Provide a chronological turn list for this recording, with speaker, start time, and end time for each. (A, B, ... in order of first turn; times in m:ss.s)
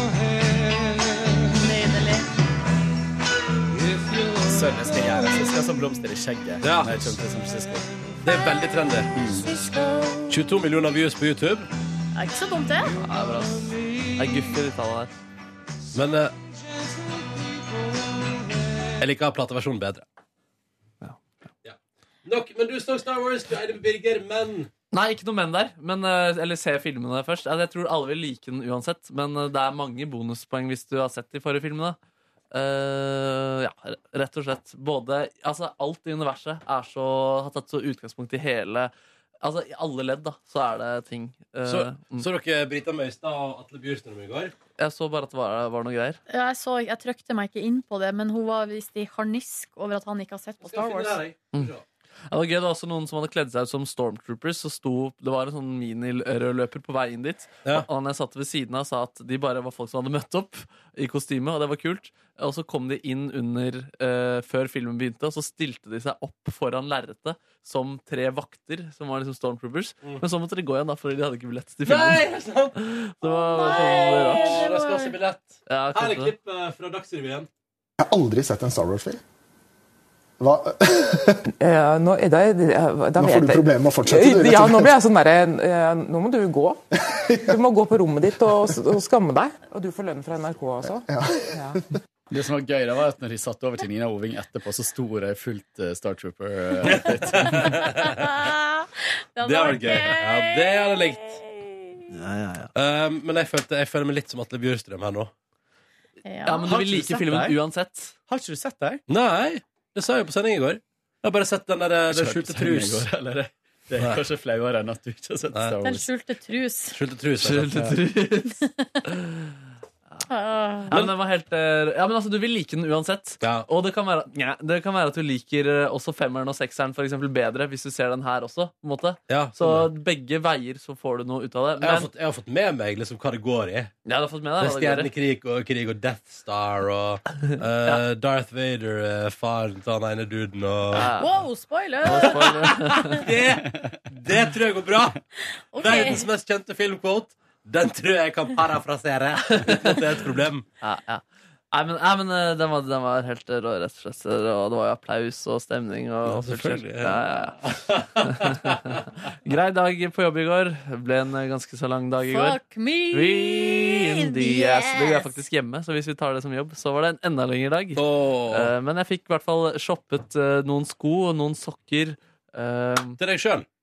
0:01.5-0:02.3 A
0:04.4-0:08.0 B
0:06.6-0:07.2 C
0:08.2-0:09.1 C
0:09.1-0:09.5 B
0:10.3-0:11.7 C
0:12.1-0:12.9 A
0:13.0-0:15.1 D
0:15.9-0:16.3 C
0:19.0-0:20.0 C
0:21.6-0:24.7 C
0:24.9-0:32.0 D
0:32.5-0:42.2 D
0:41.6-0:44.5 C
0:44.8-0:46.2 D
0:46.3-0:51.2 A
0:50.6-0:51.8 C
0:52.3-1:14.7 D
1:11.8-1:12.8 C
1:13.2-1:15.2 A
1:13.6-1:17.5 C
1:15.7-1:16.3 D
1:18.0-1:19.2 E
1:20.4-1:21.4 E
1:21.6-1:26.8 F
1:23.2-1:24.9 E
1:27.1-1:27.5 E
1:27.5-1:31.8 F
1:31.1-1:31.6 E
1:32.3-1:37.8 B
1:36.8-1:38.4 C
1:38.0-1:42.0 A
1:39.4-1:41.4 C
1:42.1-1:42.7 D
1:42.7-1:45.3 C
1:46.2-1:46.6 A
1:46.4-1:48.2 D
1:46.6-1:47.6 B
1:48.3-1:49.0 B
1:49.1-1:53.1 C
1:52.1-1:56.1 B
1:55.8-1:57.0 A
1:56.9-1:57.9 C
1:57.4-1:59.5 D
2:00.3-2:01.0 A
2:00.9-2:12.1 D
2:03.4-2:03.7 C
2:09.3-2:09.9 C
2:11.8-2:13.9 C
2:14.0-2:15.1 D
2:14.6-2:21.1 C
2:20.9-2:21.3 D
2:21.2-2:23.1 A
2:22.0-2:23.2 D
2:22.4-2:25.2 C
2:23.7-2:24.0 B
2:25.7-2:26.2 A
2:25.8-2:30.6 C
2:29.6-2:30.0 D
2:30.8-2:37.6 D
2:36.2-2:38.9 C
2:38.2-2:42.6 D
2:42.2-2:45.3 A
2:43.1-2:53.2 D
2:47.9-2:48.7 C
2:53.2-2:53.7 C